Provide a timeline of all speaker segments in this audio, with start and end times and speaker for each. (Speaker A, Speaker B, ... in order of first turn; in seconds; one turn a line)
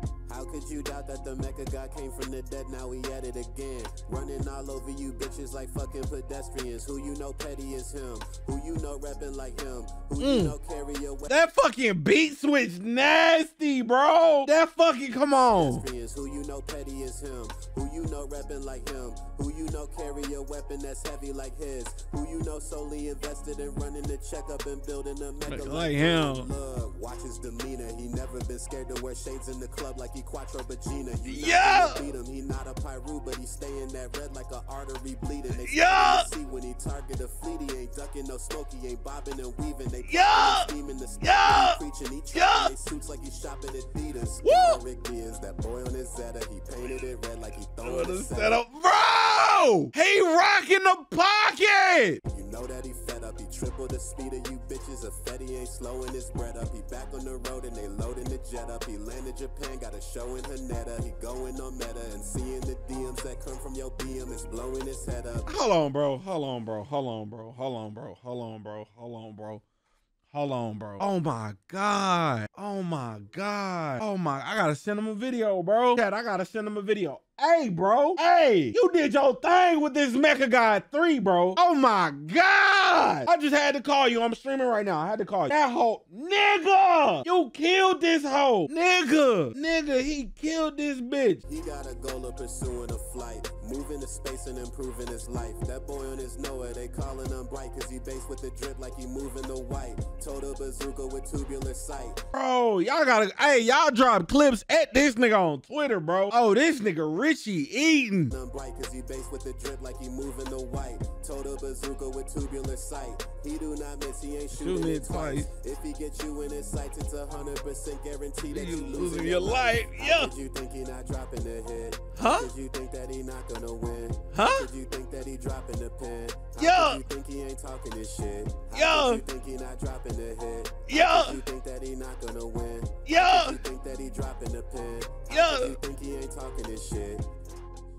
Speaker A: 0.3-11.3
Speaker B: 10.2-10.6
Speaker B: 11.3-15.8
Speaker A: 15.5-48.6
Speaker B: 25.5-26.5
Speaker B: 31.3-32.1
Speaker B: 35.6-36.3
Speaker B: 40.1-40.7
Speaker B: 41.2-41.8
Speaker B: 42.3-42.7
Speaker B: 44.4-44.8
Speaker B: 47.8-52.2
Speaker A: 52.2-65.5
Speaker B: 65.5-69.6
Speaker B: 70.3-91.4
Speaker A: 91.4-102.2
Speaker B: 102.3-108.3
Speaker A: 108.3-137.2
Speaker B: 114.5-115.5
Speaker B: 118.5-120.3
Speaker B: 122.2-122.5
Speaker B: 124.3-124.7
Speaker B: 126.6-127.0
Speaker B: 128.7-129.2
Speaker B: 130.9-131.4
Speaker B: 133.1-133.6
Speaker B: 135.3-135.8